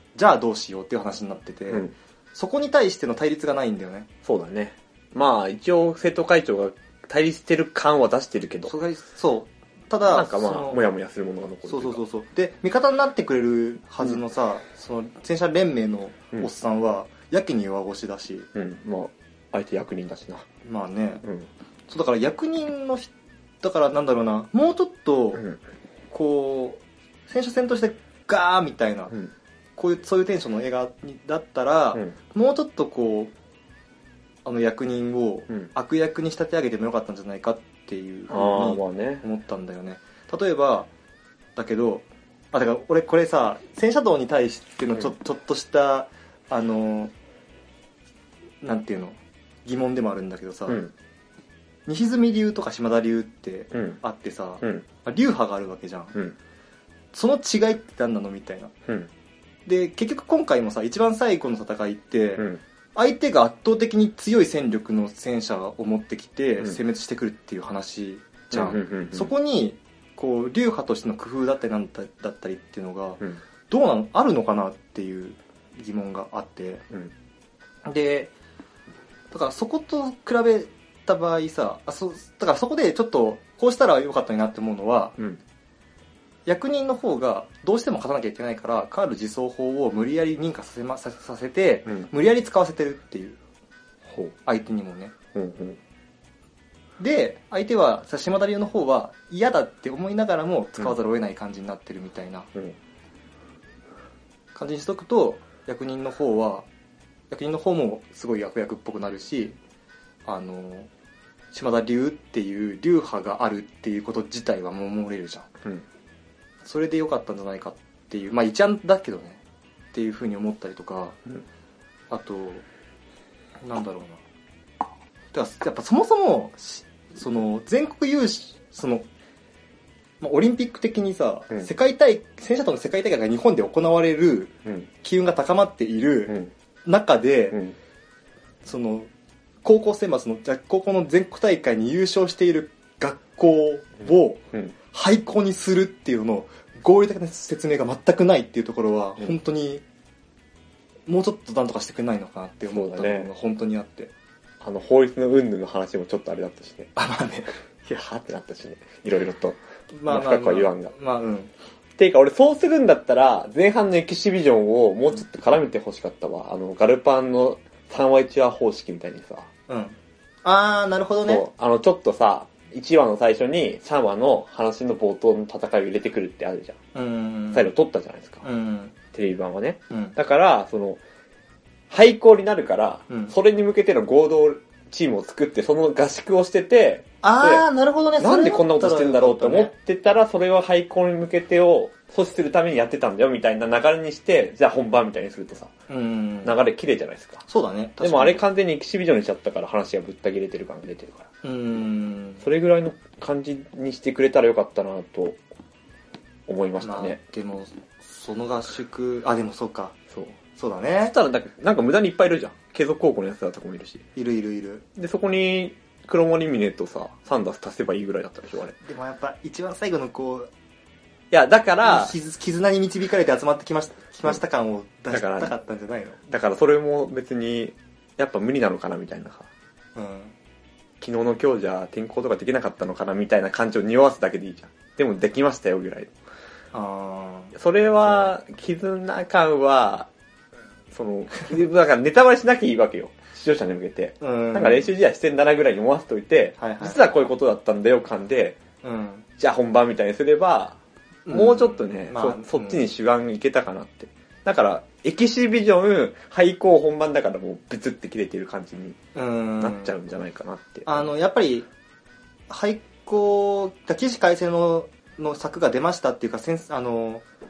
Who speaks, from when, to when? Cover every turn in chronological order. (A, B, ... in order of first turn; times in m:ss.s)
0:00.2-0:04.1 A
0:04.2-0:08.7 B
0:08.6-0:10.9 A
0:10.1-0:12.0 B
0:11.7-0:18.5 A
0:18.6-0:20.5 B
0:20.6-0:21.2 A
0:21.9-0:25.5 A
0:26.1-0:29.2 A
0:29.8-0:33.3 A
0:34.4-0:40.9 A
0:38.3-0:39.2 B
0:41.6-0:47.1 A
0:48.6-0:50.8 A
0:51.9-0:56.2 A
0:57.1-0:58.7 A
0:59.7-1:16.9 A
1:08.5-1:09.3 B
1:17.8-1:18.3 A
1:19.3-1:25.2 A
1:26.5-1:33.4 A
1:34.1-1:34.3 B
1:34.4-1:35.2 A
1:35.3-1:35.8 B
1:37.0-1:42.5 A
1:44.6-1:46.7 A
1:47.3-1:49.6 A
1:50.3-1:50.9 A
1:51.5-1:55.5 A
1:56.6-1:59.4 A
1:59.9-2:01.2 A
2:02.1-2:02.6 A
2:03.6-2:04.2 A
2:05.3-2:09.1 A
2:10.2-2:17.6 A
2:18.6-2:19.1 A
2:19.6-2:29.8 A
2:31.1-2:34.1 A
2:32.7-2:33.3 B
2:34.6-2:36.9 B
2:37.0-2:37.5 A
2:37.9-2:40.9 B
2:39.9-2:41.5 A
2:42.0-2:49.5 B
2:49.7-2:51.4 A
2:51.2-2:56.8 B
2:57.0-2:57.7 A
2:57.5-2:58.4 B
2:58.4-2:59.0 A
2:59.1-3:01.0 B
3:01.9-3:07.6 B
3:07.2-3:09.7 A
3:08.2-3:15.7 B
3:15.9-3:16.6 A
3:16.4-3:17.4 B
3:17.5-3:18.4 A
3:18.0-3:21.3 B
3:21.4-3:22.4 A
3:22.4-3:25.4 B
3:26.5-3:27.2 B
3:26.8-3:30.0 A
3:30.1-3:30.4 B
3:30.6-3:31.2 A
3:31.0-3:34.1 B
3:34.2-3:34.8 A
3:35.0-3:38.8 B
3:38.8-3:40.5 A
3:41.3-3:42.1 B
3:41.8-3:46.2 A
3:45.1-3:45.5 B
3:46.3-3:49.5 B
3:50.0-3:50.3 A
3:51.0-3:56.1 B
3:56.7-3:57.5 A
3:57.6-4:00.1 B
4:00.9-4:08.6 B
4:04.2-4:04.9 A
4:06.6-4:07.0 A
4:08.8-4:09.3 A
4:09.4-4:10.8 B
4:11.3-4:12.9 A
4:11.3-4:19.0 B
4:19.2-4:19.9 A
4:19.6-4:21.1 B
4:20.9-4:21.7 A
4:22.5-4:27.2 A